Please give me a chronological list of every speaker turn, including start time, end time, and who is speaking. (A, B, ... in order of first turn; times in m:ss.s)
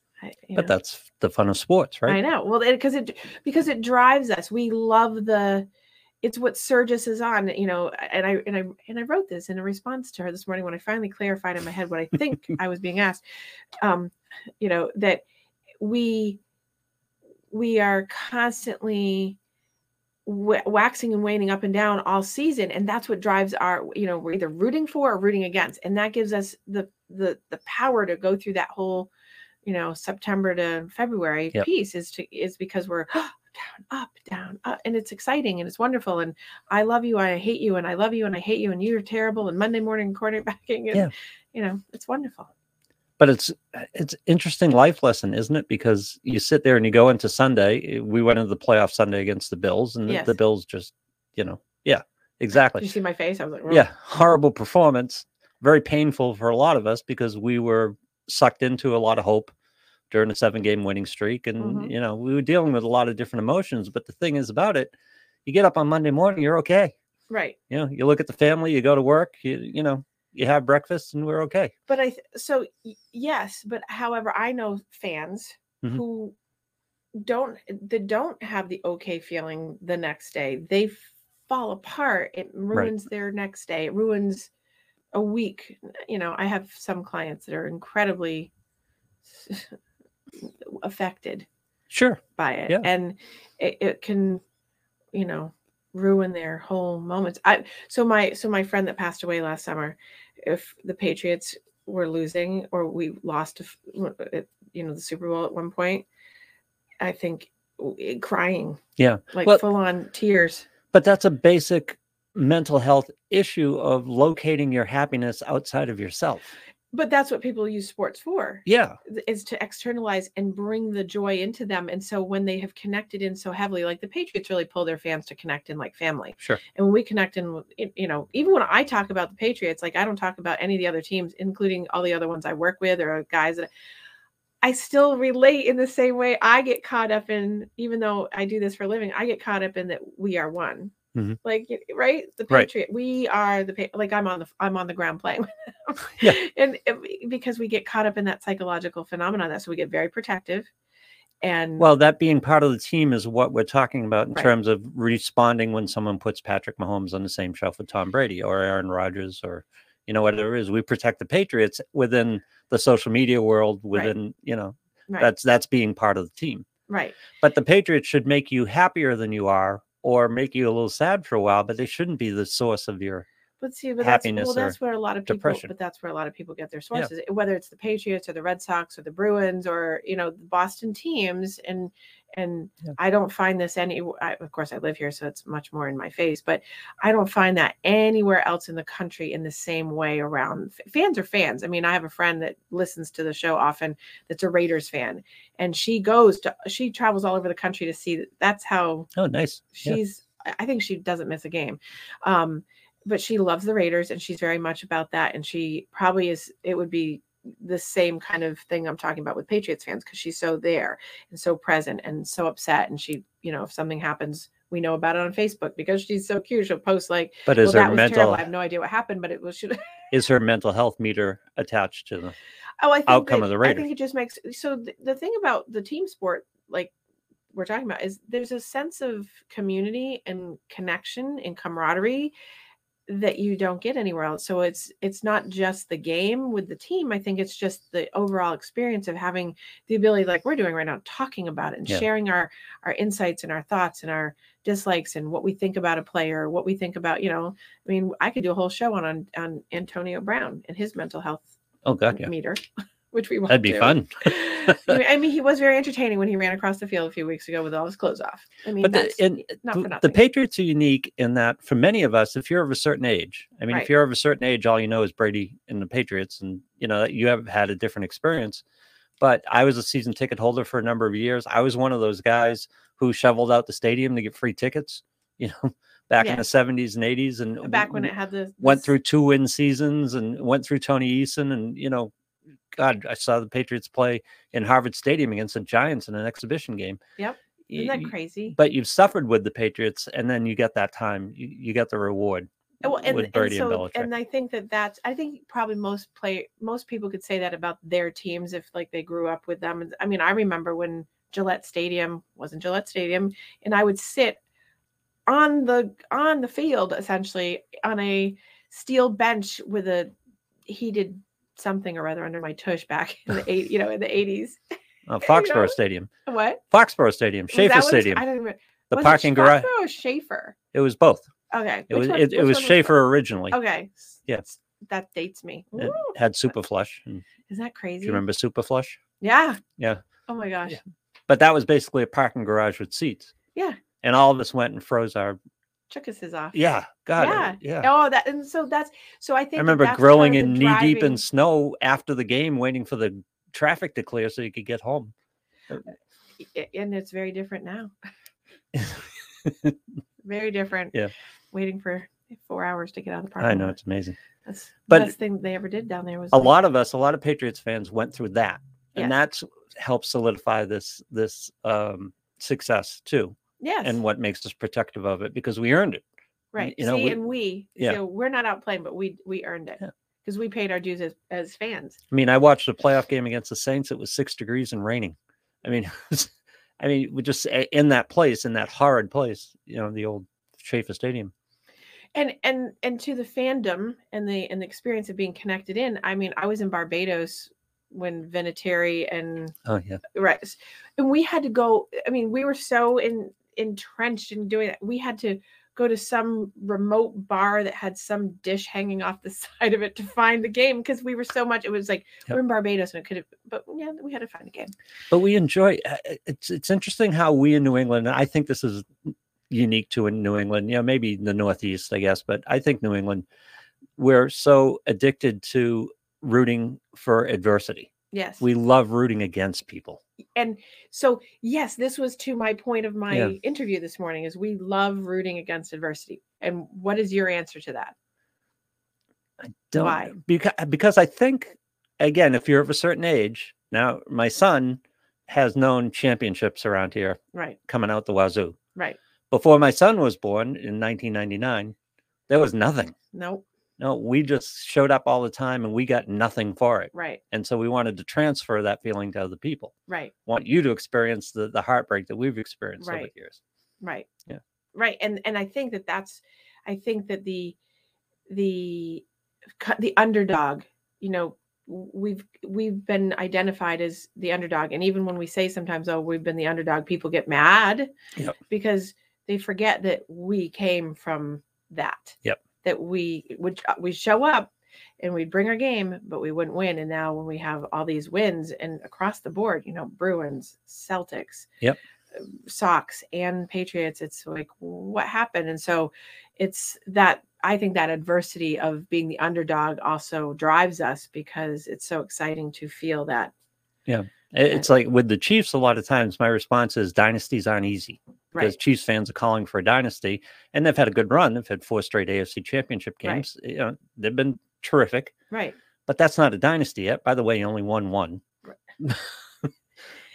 0:00.2-0:00.7 A
0:00.6-0:02.2 B
0:02.1-0:05.7 A
0:06.2-0:13.2 A
0:13.8-0:15.2 A
0:15.8-0:16.4 A
0:17.5-0:19.4 A
0:20.2-0:29.1 A
0:29.6-0:42.5 A
0:43.2-0:52.9 B
0:50.0-0:50.3 A
0:52.8-0:53.9 A
0:53.7-0:59.5 B
1:00.1-1:04.9 B
1:01.6-1:01.9 A
1:05.4-1:06.9 B
1:07.3-1:07.6 A
1:07.7-1:11.7 B
1:11.9-1:16.3 A
1:17.1-1:24.5 A
1:25.1-1:28.5 A
1:29.3-1:29.7 A
1:30.4-1:31.4 A
1:31.9-1:32.9 B
1:32.4-1:34.4 A
1:35.1-1:46.0 A
1:47.0-1:50.7 A
1:49.0-1:49.6 B
1:50.9-1:56.5 B
1:56.9-2:13.7 A
1:58.6-1:59.0 B
2:14.6-2:30.7 A
2:31.4-2:31.9 A
2:31.8-2:46.6 B
2:46.9-2:47.2 A
2:47.4-2:53.2 B
2:53.6-3:19.1 A
2:54.0-2:54.8 B
2:55.3-2:55.7 B
3:19.2-3:20.0 B
3:19.7-3:39.9 A
3:37.5-3:38.4 B
3:40.1-3:42.4 B
3:42.8-3:46.9 A
3:43.1-3:43.8 B
3:47.5-3:52.3 A
3:53.1-4:11.5 A
4:11.8-4:12.3 B
4:12.1-4:20.2 A
4:13.5-4:15.0 B
4:18.8-4:28.6 B
4:29.2-4:42.1 B
4:36.2-4:36.4 A
4:37.6-4:38.9 A
4:42.7-4:47.0 B
4:47.2-4:48.6 A
4:47.7-4:54.1 B
4:52.8-5:04.4 A
5:05.3-5:10.1 A
5:10.7-5:14.6 A
5:15.1-5:16.1 B
5:15.2-5:16.6 A
5:16.7-5:18.2 B
5:17.5-5:20.6 A
5:18.9-5:19.7 B
5:20.7-5:21.3 B
5:21.5-5:23.0 A
5:21.9-5:23.6 B
5:23.5-5:26.2 A
5:25.8-5:27.2 B
5:27.5-5:28.2 A
5:28.0-5:29.0 B
5:29.2-5:29.6 A
5:29.8-5:30.0 B
5:30.3-5:30.8 A
5:31.3-5:33.3 B
5:34.0-5:35.4 B
5:35.9-5:36.6 A
5:36.5-5:37.9 B
5:37.2-5:41.2 A
5:39.6-5:45.1 B
5:46.4-5:47.9 A
5:48.7-5:49.8 B
5:50.2-5:51.0 A
5:51.5-5:53.8 A
5:53.4-5:54.2 B
5:54.4-5:56.6 A
5:54.9-5:55.1 B
5:56.3-6:06.0 B
6:03.6-6:04.0 A
6:06.5-6:12.0 A
6:06.6-6:07.2 B
6:12.1-6:21.3 B
6:22.1-6:29.5 A
6:29.6-6:30.0 B
6:30.1-6:44.7 A
6:45.1-6:53.2 B
6:54.0-7:00.0 B
6:58.1-6:58.4 A
7:00.4-7:07.9 A
7:09.4-7:18.6 B
7:09.7-7:10.2 A
7:19.3-7:21.7 B
7:22.3-7:22.9 B
7:23.1-7:23.4 A
7:23.8-7:29.7 B
7:26.9-7:27.2 A
7:29.9-7:30.1 A
7:30.3-7:33.4 B
7:32.8-7:33.1 A
7:33.8-7:34.1 A
7:34.7-7:37.6 A
7:38.3-7:39.0 A
7:39.6-7:47.9 A
7:48.5-8:01.5 A
8:02.2-8:13.3 A
8:13.9-8:25.1 B
8:25.3-8:25.6 A
8:25.9-8:28.2 B
8:28.8-8:29.5 B